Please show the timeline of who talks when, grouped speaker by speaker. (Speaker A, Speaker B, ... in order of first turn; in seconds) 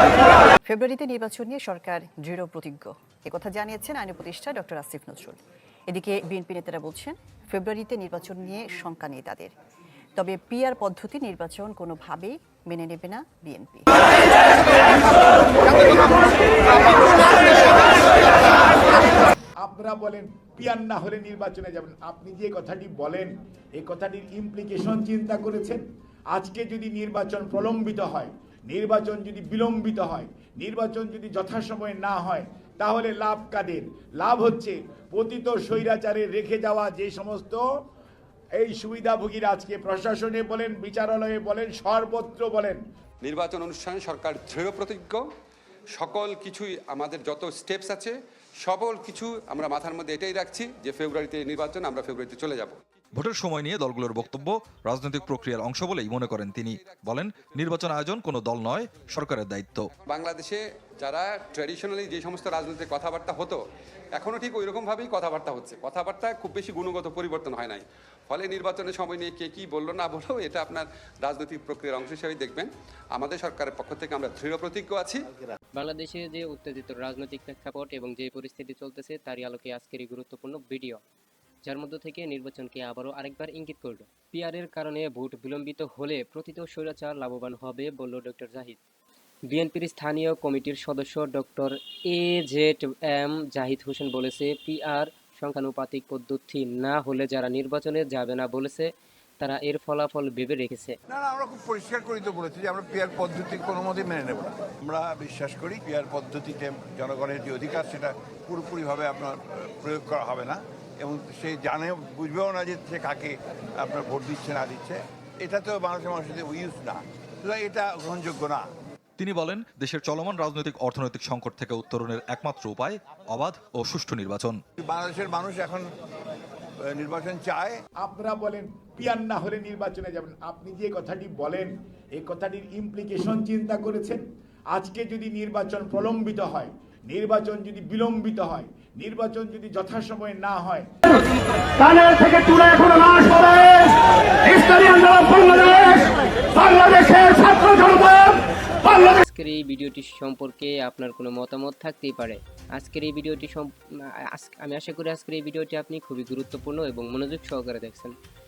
Speaker A: 0.7-5.4, 5.9-9.5, 10.2-13.9
Speaker B: 19.6-37.6, 38.5-42.8, 128.0-140.9
Speaker C: 43.2-45.2, 46.0-52.8, 60.0-63.6, 64.1-75.2
Speaker D: 53.1-59.9, 119.2-124.6
Speaker E: 75.7-81.0, 81.6-88.8, 89.5-101.0, 147.2-153.7, 154.3-158.1
Speaker F: 101.1-118.6, 124.8-125.9, 126.8-127.8
Speaker G: 141.8-148.0